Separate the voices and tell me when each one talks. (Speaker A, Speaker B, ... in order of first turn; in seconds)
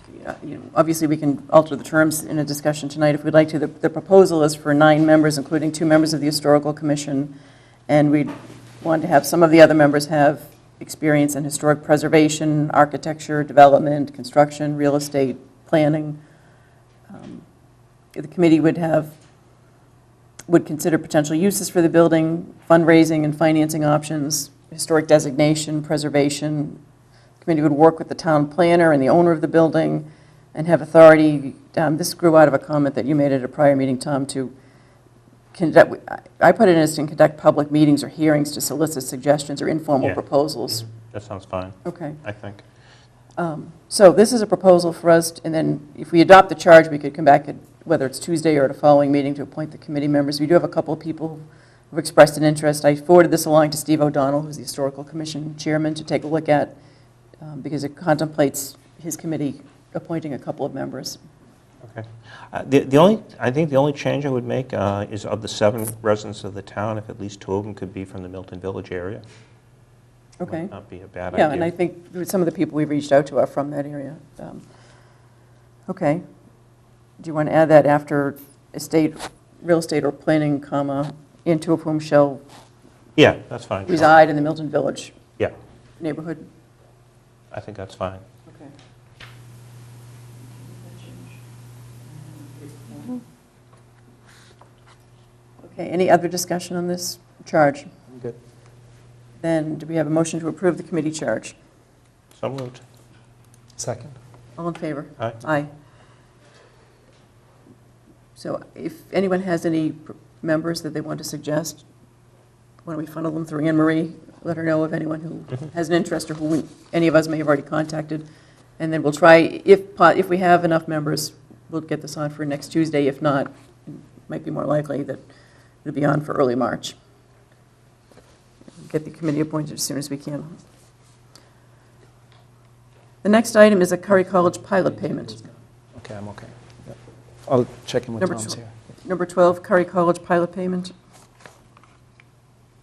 Speaker A: 0.1-7.3, 7.9-16.2, 17.1-17.4, 18.1-19.1, 20.5-26.8, 27.4-34.5, 35.5-40.8, 41.8-42.2, 43.4-56.8, 57.4-61.2, 70.4-70.7, 71.3-74.6, 75.9-76.2, 77.2-82.4, 83.8-85.2, 86.0-86.5, 90.6-91.3, 92.2-93.2, 95.6-97.9, 99.4-101.5, 104.6-105.7, 108.4-111.8, 112.8-118.2, 118.8-125.2, 125.8-127.0, 128.8-130.5, 133.2-135.4, 138.2-140.9
Speaker B: 40.0-42.6, 61.8-69.2, 70.5-71.7, 83.2-84.1, 87.5-88.2, 102.4-102.8
Speaker C: 103.8-104.1, 135.9-138.7